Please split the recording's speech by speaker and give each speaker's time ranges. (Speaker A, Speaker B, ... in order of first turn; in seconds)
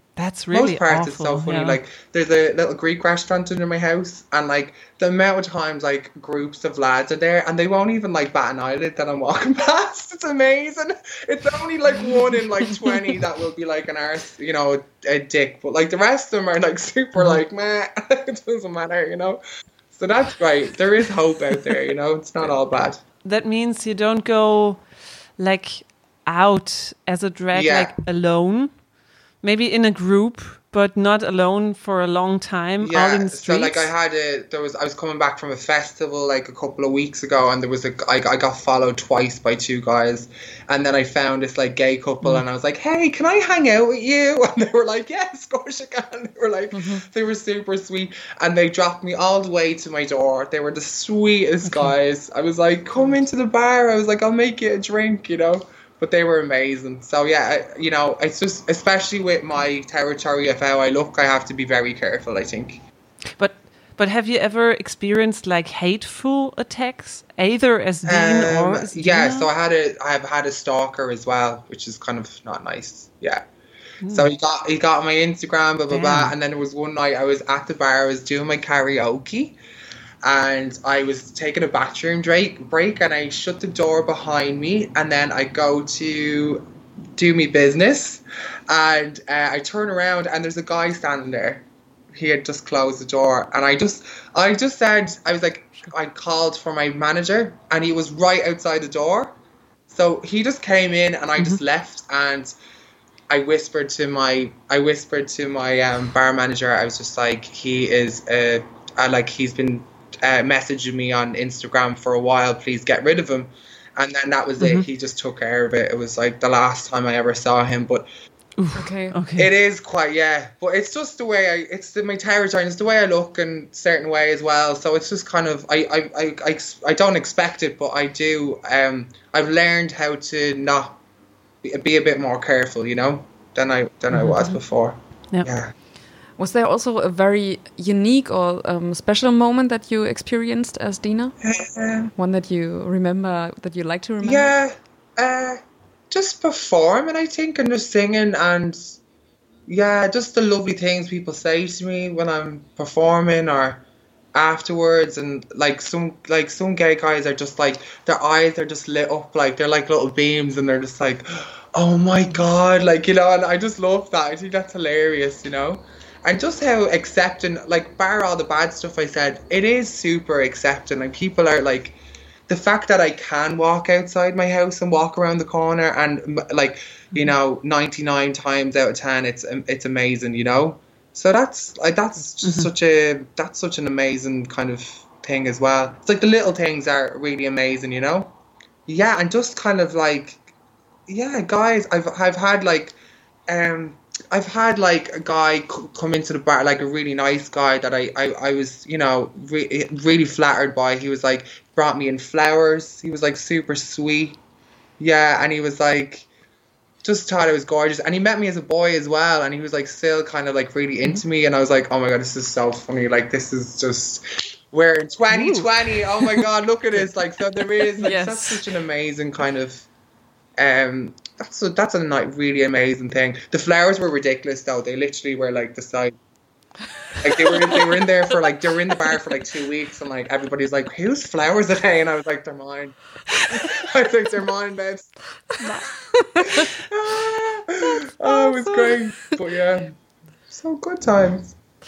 Speaker A: 0.2-1.8, 23.2-24.8, 25.4-28.8, 29.4-33.9, 51.6-51.9, 63.4-69.5, 74.0-74.3, 75.9-76.3, 114.6-114.9, 118.6-119.5, 134.1-134.4, 182.4-182.7, 215.3-216.4, 238.2-239.0
Speaker B: 0.5-19.4, 19.9-23.0, 27.5-27.9, 32.8-62.8, 68.0-73.4, 74.1-79.6, 80.2-86.6, 87.2-99.3, 99.9-102.5, 103.3-118.1, 119.4-131.0, 131.6-135.7, 141.4-142.1, 144.2-149.0, 149.7-153.8, 154.3-172.0, 172.5-188.3, 188.9-190.5, 191.1-193.0, 193.5-204.4, 205.0-206.3, 207.0-219.9, 220.6-226.2, 227.2-233.0, 233.5-235.1, 236.4-239.9, 240.5-241.5
Speaker C: 46.7-47.0, 118.7-119.2, 136.4-141.3, 142.2-144.5, 218.0-218.6, 227.4-227.8, 236.1-236.6